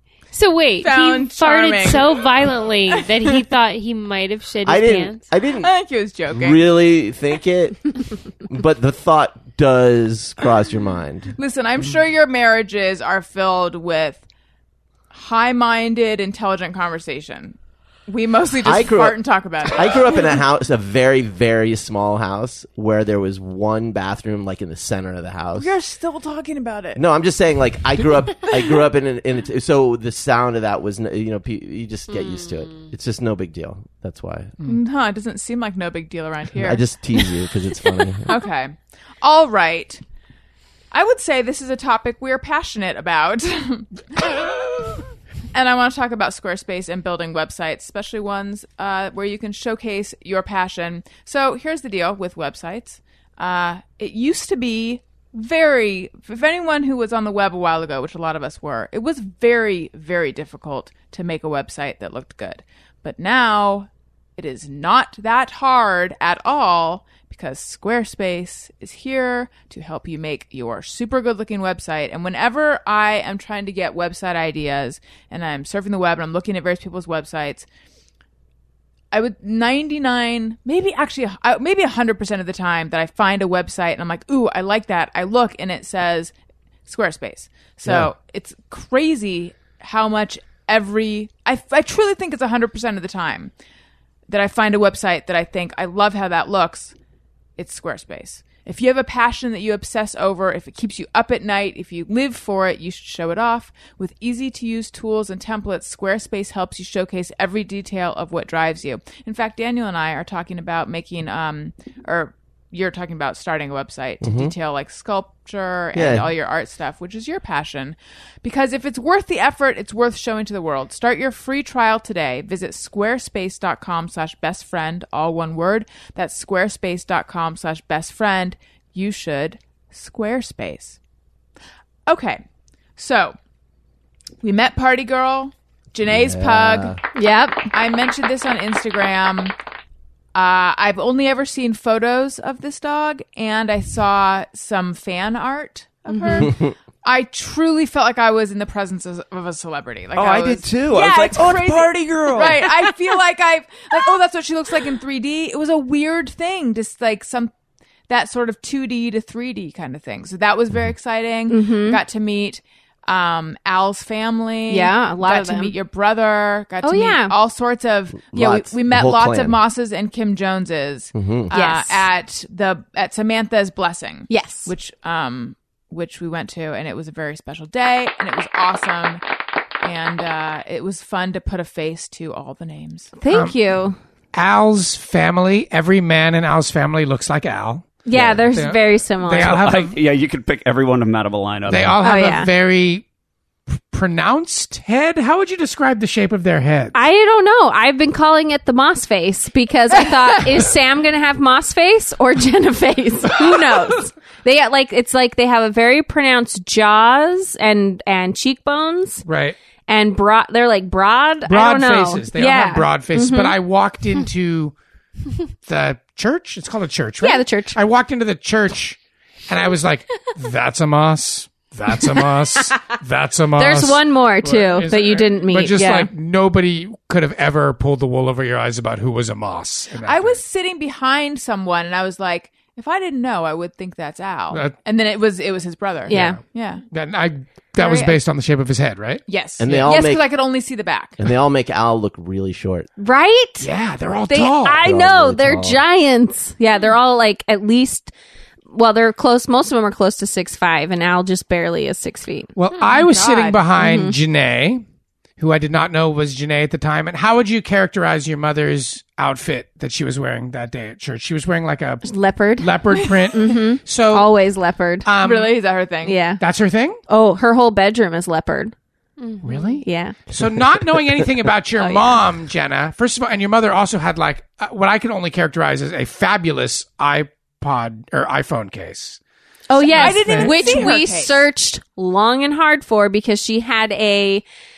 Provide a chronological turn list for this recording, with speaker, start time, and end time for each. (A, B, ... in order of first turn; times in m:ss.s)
0:00.3-0:05.2 A
0:00.8-0:02.2 B
0:04.6-0:05.7 C
0:05.6-0:06.7 B
0:06.3-0:11.3 C
0:11.4-0:14.2 B
0:15.1-0:17.6 B
0:18.1-0:20.4 B
0:18.6-0:25.7 C
0:25.6-0:27.0 B
0:27.0-0:34.6 C
0:32.1-0:32.9 A
0:34.6-0:36.8 B
0:36.6-0:38.3 C
0:38.3-0:40.0 B
0:40.9-1:17.7 B
1:19.1-1:26.3 B
1:26.9-1:33.5 B
1:27.8-1:28.1 C
1:34.3-1:37.0 B
1:37.6-2:11.0 B
1:54.2-1:54.5 C
1:55.9-1:56.3 C
2:12.1-2:12.4 B
2:13.0-2:13.4 B
2:14.4-2:17.0 B
2:16.1-2:17.0 C
2:17.2-2:17.7 D
2:17.7-2:19.6 B
2:20.3-2:37.5 B
2:26.1-2:26.5 D
2:26.4-2:26.7 C
2:30.2-2:32.7 E
2:38.1-2:59.2 B
2:41.5-2:42.0 D
2:44.7-2:45.8 D
2:46.8-2:47.3 D
2:48.3-2:49.6 C
2:51.2-2:51.5 C
2:51.5-2:52.1 D
2:54.3-2:54.7 D
2:59.8-3:03.1 B
3:03.2-3:04.0 D
3:03.3-3:03.6 F
3:04.3-3:10.0 F
3:08.1-3:09.6 D
3:09.4-3:12.0 E
3:11.7-3:13.0 F
3:12.0-3:12.5 D
3:13.8-3:17.0 F
3:16.9-3:29.2 D
3:29.3-3:29.6 F
3:29.9-3:33.6 D
3:31.5-3:34.7 F
3:35.6-3:50.4 F
3:37.2-3:37.8 D
3:43.6-3:46.1 D
3:50.0-3:56.8 B
3:54.5-3:54.8 F
3:56.1-3:56.4 D
3:56.1-3:59.2 F
3:57.8-3:58.2 B
3:59.3-4:01.2 B
3:59.6-4:00.3 C
4:01.2-4:02.9 C
4:03.0-4:03.7 D
4:03.6-4:04.9 F
4:04.3-4:08.1 D
4:04.8-4:05.8 C
4:08.7-4:12.5 D
4:12.6-4:14.8 F
4:12.9-4:13.6 B
4:13.8-4:14.2 D
4:15.4-4:24.3 F
4:22.0-4:22.8 D
4:23.3-4:25.1 D
4:25.1-4:25.6 F
4:25.2-4:26.2 B
4:26.0-4:26.4 D
4:26.4-4:27.0 F
4:27.1-4:28.7 D
4:29.2-4:29.8 A
4:29.4-4:39.2 F
4:29.8-4:30.2 D
4:31.8-4:32.1 D
4:39.7-4:44.4 D
4:39.8-4:40.9 F
4:39.9-4:41.5 B